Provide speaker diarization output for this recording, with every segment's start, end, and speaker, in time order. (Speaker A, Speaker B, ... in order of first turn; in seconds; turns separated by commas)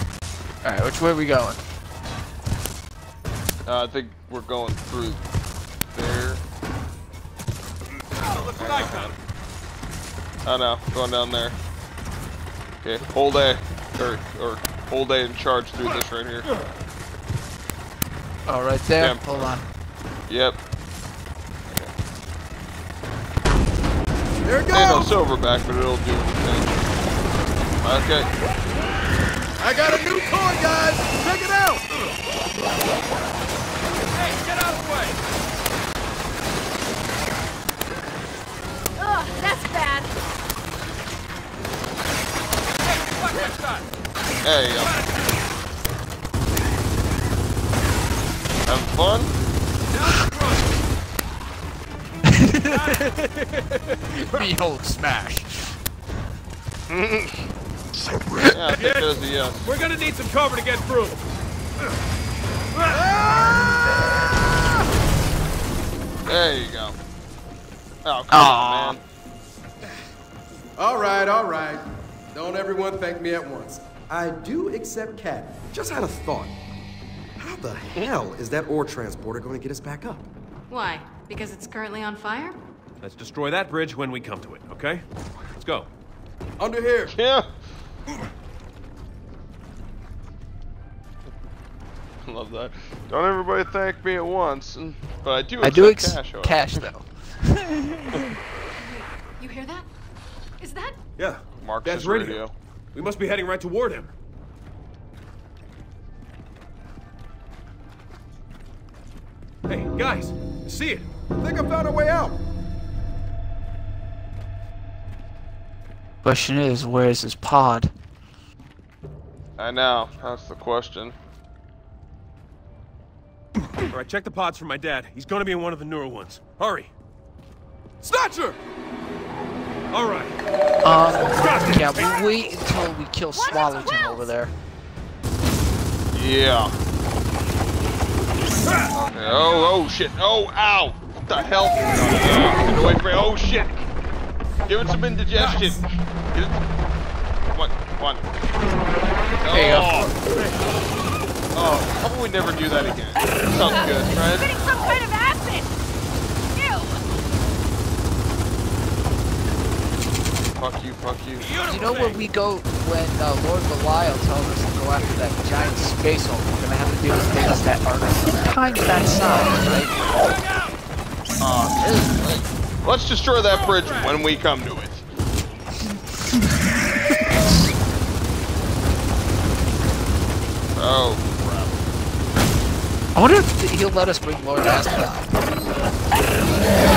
Speaker A: 0.6-1.6, Speaker B: 3.6-5.2, Speaker B: 5.9-6.4, Speaker C: 8.2-9.1, Speaker B: 8.6-9.1, Speaker B: 10.4-11.6, Speaker B: 12.8-16.5, Speaker A: 18.4-19.6, Speaker B: 19.0-19.5, Speaker B: 20.3-20.6, Speaker D: 24.4-25.2, Speaker B: 24.7-27.0, Speaker B: 27.8-28.3, Speaker D: 29.6-31.8, Speaker C: 34.1-35.2, Speaker E: 39.0-40.1, Speaker C: 42.8-43.8, Speaker B: 44.4-45.0, Speaker B: 48.6-49.3, Speaker C: 49.9-50.7, Speaker A: 52.3-53.5, Speaker C: 52.6-53.6, Speaker A: 54.1-55.5, Speaker B: 56.9-57.5, Speaker B: 58.5-59.7, Speaker C: 58.7-61.2, Speaker C: 62.7-63.0, Speaker D: 62.9-63.8, Speaker B: 66.2-67.0, Speaker B: 68.0-69.0, Speaker A: 68.3-69.0, Speaker D: 70.8-76.5, Speaker D: 77.4-80.3, Speaker F: 80.7-82.6, Speaker C: 83.0-85.0, Speaker C: 85.6-85.9, Speaker D: 86.6-87.1, Speaker B: 87.2-87.5, Speaker B: 92.2-96.9, Speaker A: 95.6-98.3, Speaker F: 98.8-99.9, Speaker F: 100.6-101.0, Speaker C: 101.2-104.1, Speaker B: 101.6-102.5, Speaker C: 109.7-111.1, Speaker D: 111.4-112.4, Speaker A: 116.2-117.9, Speaker B: 119.6-121.2, Speaker C: 123.8-126.9, Speaker D: 128.0-128.6, Speaker C: 129.9-130.3, Speaker A: 130.8-134.5, Speaker C: 131.2-132.2, Speaker E: 133.3-134.3, Speaker B: 136.1-136.7, Speaker C: 138.7-139.0, Speaker B: 138.9-143.8, Speaker B: 144.7-146.5, Speaker C: 145.4-145.7, Speaker B: 147.5-148.5, Speaker B: 149.4-150.1, Speaker A: 149.5-150.0, Speaker C: 150.3-150.8, Speaker B: 151.5-154.5, Speaker E: 154.0-155.7, Speaker E: 156.5-157.0, Speaker B: 160.6-161.5, Speaker C: 161.4-162.3, Speaker A: 161.7-169.9, Speaker C: 170.0-170.8, Speaker B: 171.4-175.0, Speaker C: 173.5-174.2, Speaker B: 180.7-181.8, Speaker A: 183.1-185.5